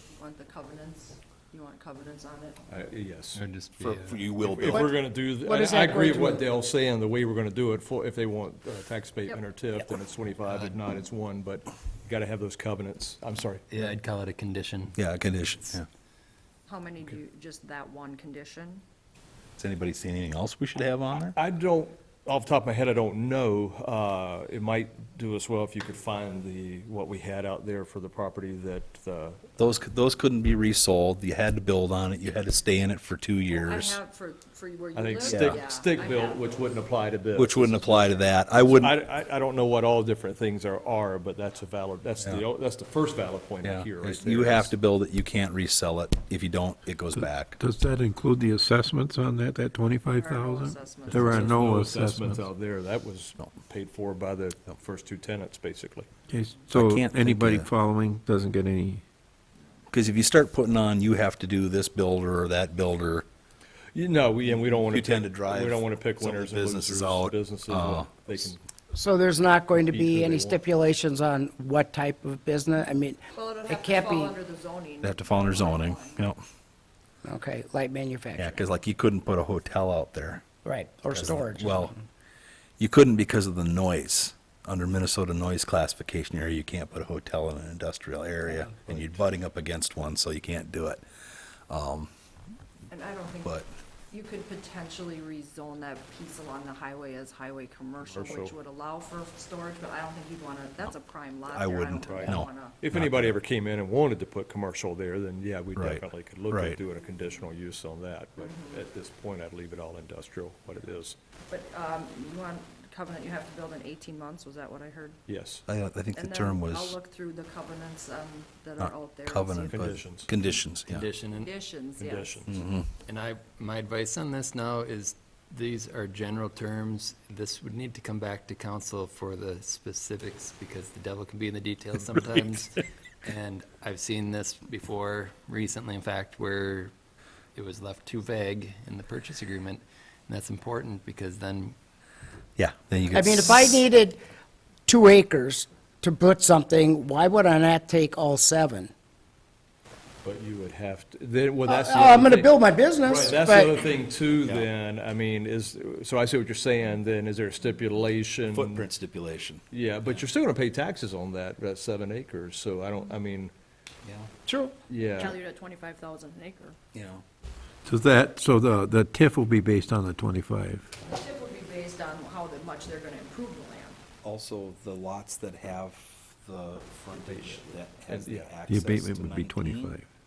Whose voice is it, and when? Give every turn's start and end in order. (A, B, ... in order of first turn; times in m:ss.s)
0:00.1-0:02.6 A
0:02.7-0:03.4 B
0:03.3-0:04.3 C
0:03.8-0:04.9 D
0:04.4-0:13.6 B
0:05.4-0:06.4 E
0:10.4-0:10.7 C
0:13.7-0:14.9 C
0:14.9-0:15.9 D
0:16.7-0:18.8 A
0:19.6-0:21.4 D
0:21.3-0:29.4 B
0:29.6-0:34.0 D
0:33.5-0:36.8 A
0:34.9-0:44.7 B
0:35.2-0:35.6 D
0:37.3-0:39.0 D
0:42.2-0:42.5 D
0:43.6-0:47.6 D
0:47.1-0:52.5 F
0:50.1-0:51.6 A
0:51.1-0:56.1 B
0:56.3-0:59.0 F
0:56.7-0:57.7 D
0:59.9-1:03.2 D
1:03.9-1:08.6 B
1:04.4-1:08.5 D
1:08.9-1:14.3 E
1:09.7-1:10.6 B
1:13.3-1:16.3 A
1:15.0-1:16.4 D
1:17.2-1:18.6 E
1:18.4-1:20.5 D
1:20.6-1:21.9 E
1:21.1-1:21.9 D
1:22.8-1:31.0 D
1:31.7-1:32.1 D
1:32.9-1:33.6 A
1:33.4-1:33.7 D
1:34.1-1:42.8 A
1:38.1-1:38.5 B
1:41.4-1:43.4 D
1:42.0-1:51.2 B
1:45.7-1:46.8 D
1:48.4-1:48.8 A
1:51.5-1:55.2 A
1:55.3-1:55.6 B
1:55.6-1:57.0 D
1:56.1-1:59.8 A
1:58.8-2:01.1 D
1:59.7-2:00.3 B
2:00.9-2:01.5 C
2:01.4-2:02.5 A
2:02.0-2:02.6 B
2:02.4-2:02.9 D
2:03.0-2:12.7 C
2:12.3-2:12.7 D
2:13.2-2:16.9 C
2:17.5-2:21.7 C
2:22.6-2:23.8 D
2:23.1-2:24.2 E
2:24.9-2:28.9 E
2:30.2-2:38.8 B
2:31.6-2:33.8 E
2:34.3-2:34.7 D
2:38.5-2:40.2 D
2:39.7-2:43.5 B
2:44.0-2:44.3 D
2:44.5-2:44.7 E
2:44.9-2:45.4 B
2:45.2-2:46.8 A
2:46.9-2:47.2 D
2:47.8-2:50.9 F
2:51.0-2:54.0 A
2:54.2-3:00.0 D
2:57.1-2:58.5 B
2:58.7-3:00.0 F